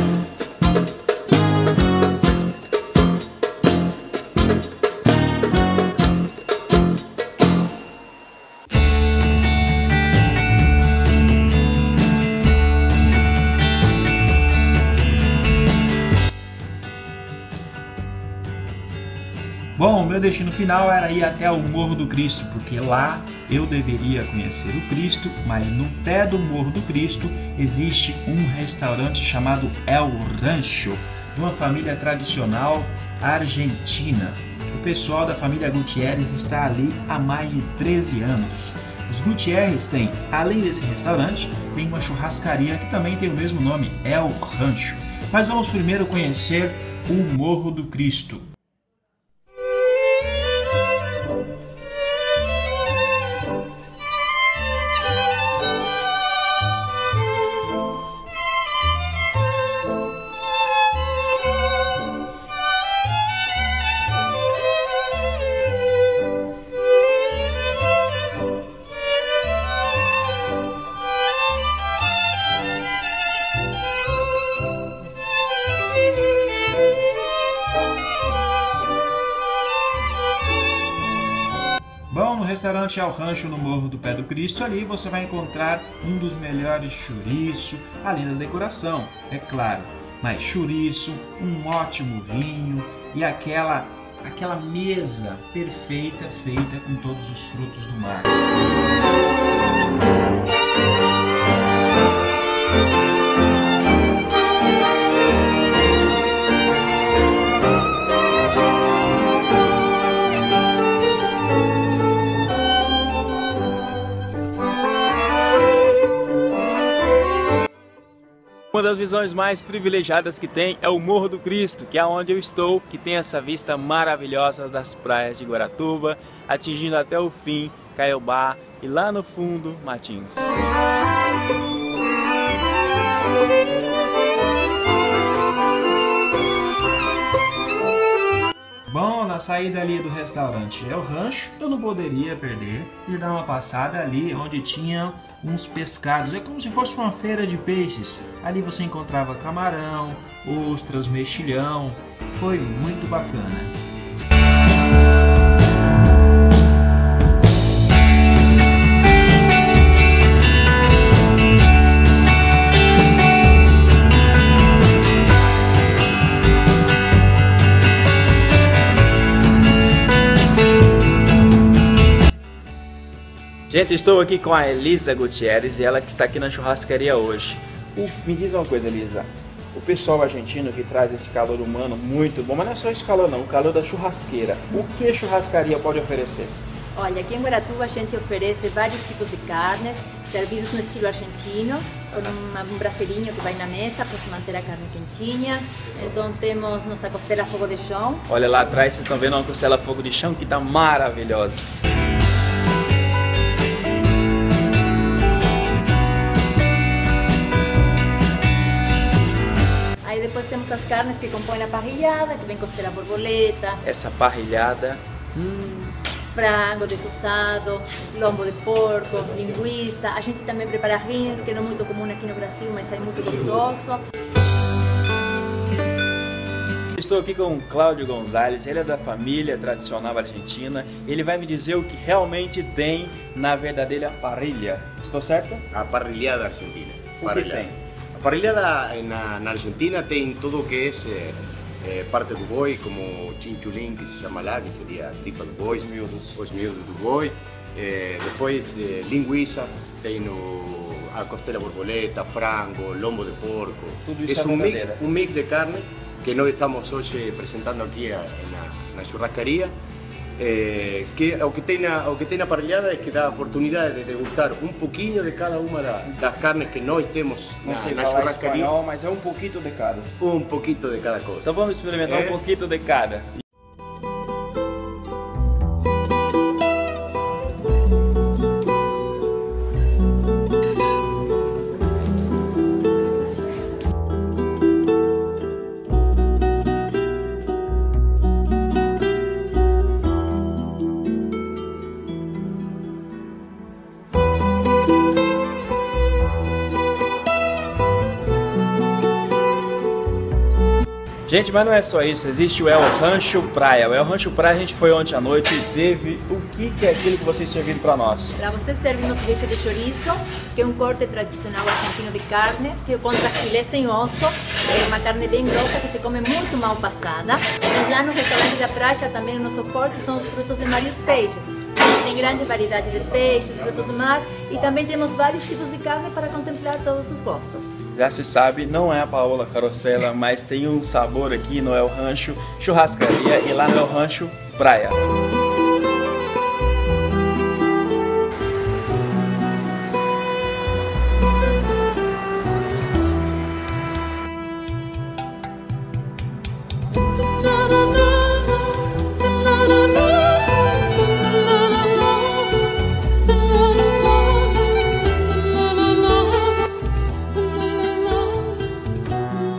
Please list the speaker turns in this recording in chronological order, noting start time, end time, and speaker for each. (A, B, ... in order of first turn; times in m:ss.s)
0:19.8-0:48.5 A
1:22.1-1:38.4 A
1:58.7-2:10.6 A
2:18.9-2:33.7 A
2:53.7-3:06.5 A
3:06.9-3:18.2 B
3:18.3-3:21.6 A
3:30.0-3:33.8 B
3:33.8-3:35.9 A
3:36.3-3:44.0 B
3:46.9-3:55.6 A
3:55.7-4:19.7 C
3:57.2-3:57.8 A
4:05.7-4:06.4 A
4:14.0-4:15.0 A
4:20.4-4:28.7 C
4:27.6-4:30.1 A
4:30.2-4:32.4 C
4:31.4-4:33.3 A
5:01.3-5:08.4 A
5:08.4-5:27.7 B
5:27.9-5:35.0 A